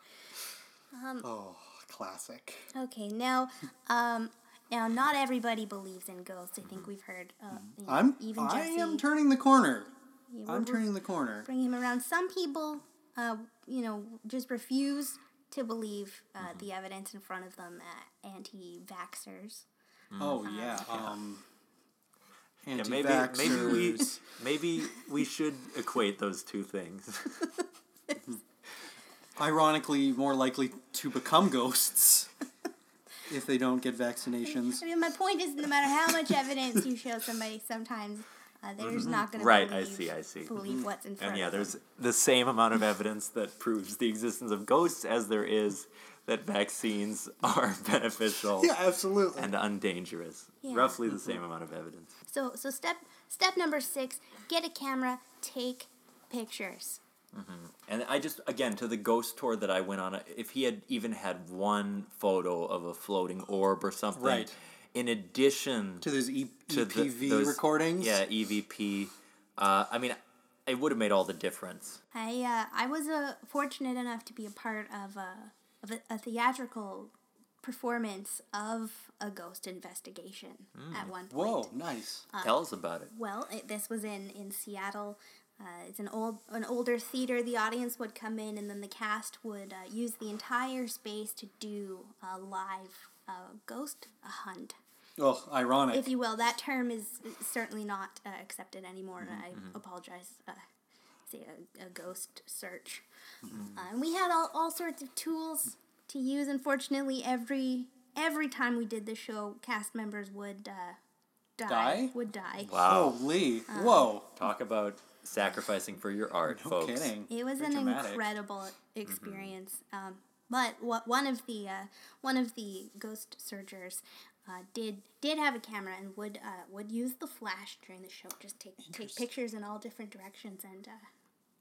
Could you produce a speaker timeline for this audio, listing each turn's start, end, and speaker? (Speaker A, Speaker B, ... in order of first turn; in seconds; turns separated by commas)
Speaker A: 0.9-1.3, Speaker B: 1.2-2.7, Speaker A: 2.7-9.1, Speaker B: 7.8-9.9, Speaker A: 10.3-10.9, Speaker B: 10.5-11.5, Speaker A: 11.4-19.7, Speaker C: 16.4-16.7, Speaker C: 20.1-21.1, Speaker B: 20.2-21.4, Speaker A: 20.4-20.9, Speaker B: 22.6-24.2, Speaker C: 22.7-27.6, Speaker B: 29.4-32.3, Speaker B: 33.3-34.8, Speaker A: 34.5-41.8, Speaker C: 38.8-40.6, Speaker B: 40.6-40.9, Speaker C: 41.2-48.8, Speaker B: 48.6-49.5, Speaker C: 49.4-52.1, Speaker A: 50.6-51.0, Speaker A: 52.3-57.0, Speaker C: 57.3-66.1, Speaker B: 64.2-64.5, Speaker B: 66.0-68.2, Speaker C: 66.7-72.0, Speaker A: 72.1-81.7, Speaker C: 80.8-81.1, Speaker B: 81.3-82.3, Speaker A: 82.3-94.8, Speaker C: 82.4-83.1, Speaker B: 95.2-96.2, Speaker A: 95.9-100.6, Speaker A: 101.3-103.0, Speaker B: 103.5-103.8, Speaker A: 103.7-111.0, Speaker A: 111.6-112.8, Speaker B: 111.7-112.2, Speaker C: 112.7-113.2, Speaker B: 112.7-114.3, Speaker A: 113.7-114.1, Speaker C: 114.4-117.1, Speaker B: 116.5-118.3, Speaker A: 117.3-131.1, Speaker C: 119.1-119.5, Speaker B: 128.9-129.2